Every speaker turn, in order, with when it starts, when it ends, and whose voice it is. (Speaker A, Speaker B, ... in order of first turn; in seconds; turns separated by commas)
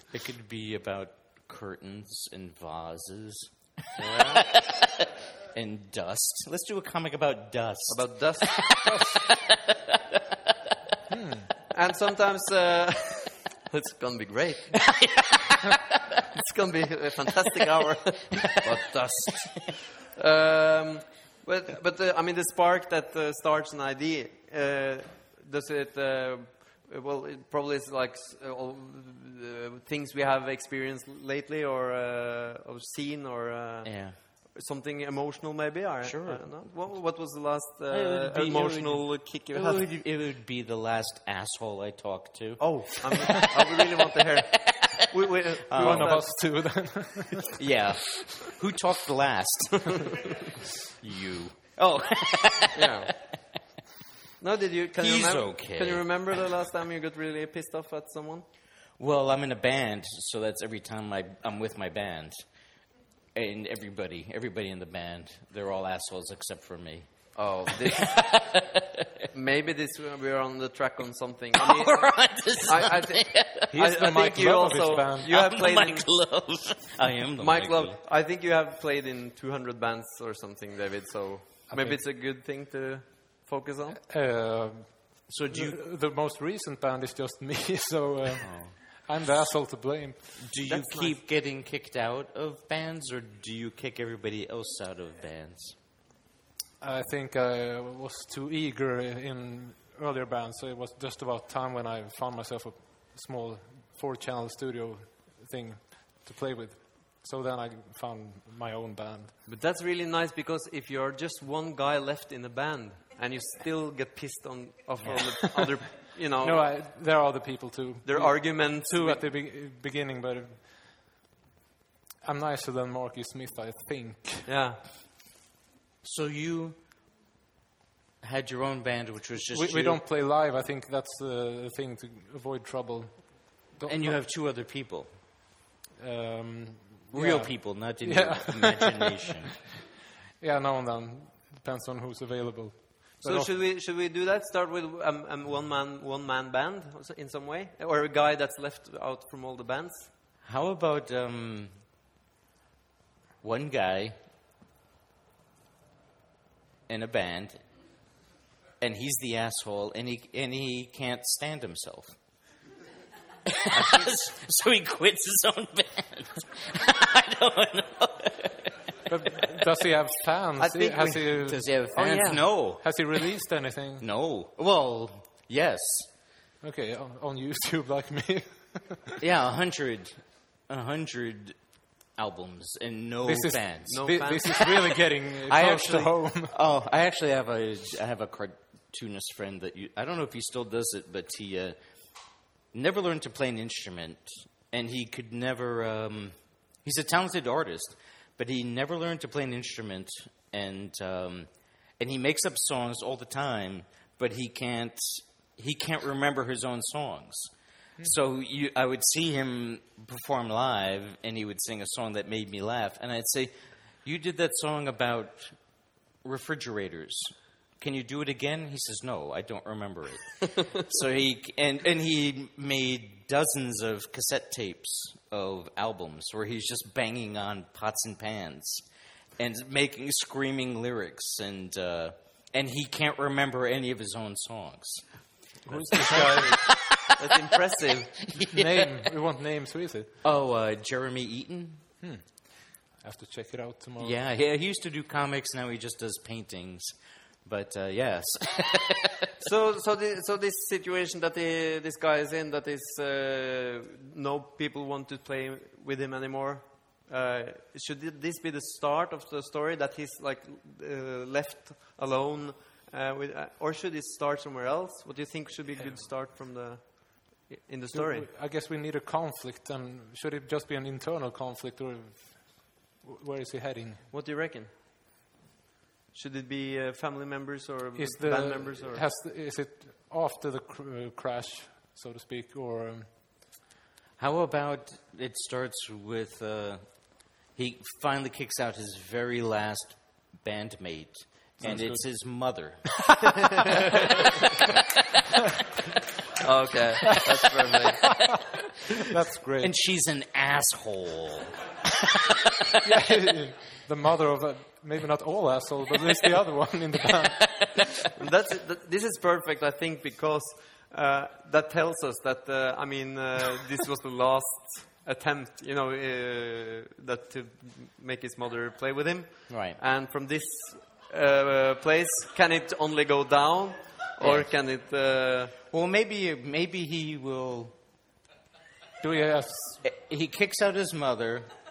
Speaker A: 0.1-10.7, Speaker B: 4.0-4.5, Speaker B: 7.9-9.0, Speaker C: 11.1-11.5, Speaker B: 11.7-14.8, Speaker A: 14.7-15.8, Speaker B: 16.4-39.8, Speaker A: 18.4-19.7, Speaker A: 33.8-34.2, Speaker A: 36.0-36.4, Speaker A: 37.9-45.0, Speaker B: 42.6-46.5, Speaker A: 45.7-46.2, Speaker C: 45.8-47.5, Speaker A: 47.6-50.3, Speaker A: 50.8-53.4, Speaker B: 52.7-53.1, Speaker B: 54.4-58.4, Speaker A: 55.0-56.5, Speaker A: 59.0-62.4, Speaker A: 63.3-67.1, Speaker B: 67.4-68.2, Speaker A: 67.7-69.3, Speaker B: 69.3-76.1, Speaker A: 71.5-73.7, Speaker C: 73.7-75.3, Speaker A: 75.2-78.0, Speaker B: 77.4-84.0, Speaker C: 81.7-82.0, Speaker C: 84.1-90.4, Speaker A: 85.3-85.8, Speaker A: 88.4-88.8, Speaker A: 90.4-95.8, Speaker B: 90.7-91.1, Speaker C: 96.8-109.3, Speaker B: 109.5-116.7, Speaker C: 115.1-115.4, Speaker C: 116.4-121.0, Speaker B: 118.0-119.2, Speaker C: 122.2-124.5, Speaker B: 124.5-124.8, Speaker A: 126.0-126.8, Speaker A: 128.2-130.0, Speaker C: 129.5-134.1, Speaker A: 133.8-135.1, Speaker C: 136.0-139.5, Speaker A: 137.1-139.6, Speaker C: 140.4-143.5, Speaker B: 143.2-150.1, Speaker A: 150.4-151.7, Speaker A: 153.4-154.2, Speaker A: 156.9-157.6, Speaker A: 158.8-162.2, Speaker A: 163.5-168.8, Speaker C: 169.1-171.7, Speaker A: 170.6-172.9, Speaker B: 170.8-171.1, Speaker B: 171.9-172.4, Speaker C: 172.8-174.0, Speaker A: 174.0-176.1, Speaker C: 176.6-179.2, Speaker A: 179.2-181.6, Speaker A: 182.2-184.7, Speaker C: 183.2-186.5, Speaker B: 183.9-184.9, Speaker A: 185.4-191.7, Speaker A: 192.7-201.5, Speaker A: 202.0-213.5, Speaker A: 214.0-215.6, Speaker A: 216.2-228.8, Speaker A: 229.4-235.0, Speaker C: 235.7-236.5, Speaker B: 235.7-238.2, Speaker A: 235.9-237.1, Speaker A: 238.3-238.9, Speaker C: 238.4-240.1, Speaker A: 240.2-241.8, Speaker C: 242.0-244.2, Speaker A: 244.0-249.3, Speaker B: 249.4-268.3, Speaker C: 267.9-274.1, Speaker B: 274.1-274.7, Speaker B: 276.1-279.0, Speaker C: 277.9-283.1, Speaker A: 284.2-286.8, Speaker A: 287.5-294.0, Speaker C: 291.6-292.0, Speaker C: 293.2-294.0, Speaker A: 294.7-295.2, Speaker B: 296.4-298.2, Speaker C: 298.0-298.3, Speaker C: 298.9-299.7, Speaker A: 299.6-301.5, Speaker A: 302.1-302.6, Speaker C: 302.8-308.1, Speaker B: 308.1-325.5, Speaker A: 319.5-319.8, Speaker A: 324.2-324.5, Speaker A: 325.7-327.7, Speaker C: 329.0-329.8, Speaker A: 329.8-331.5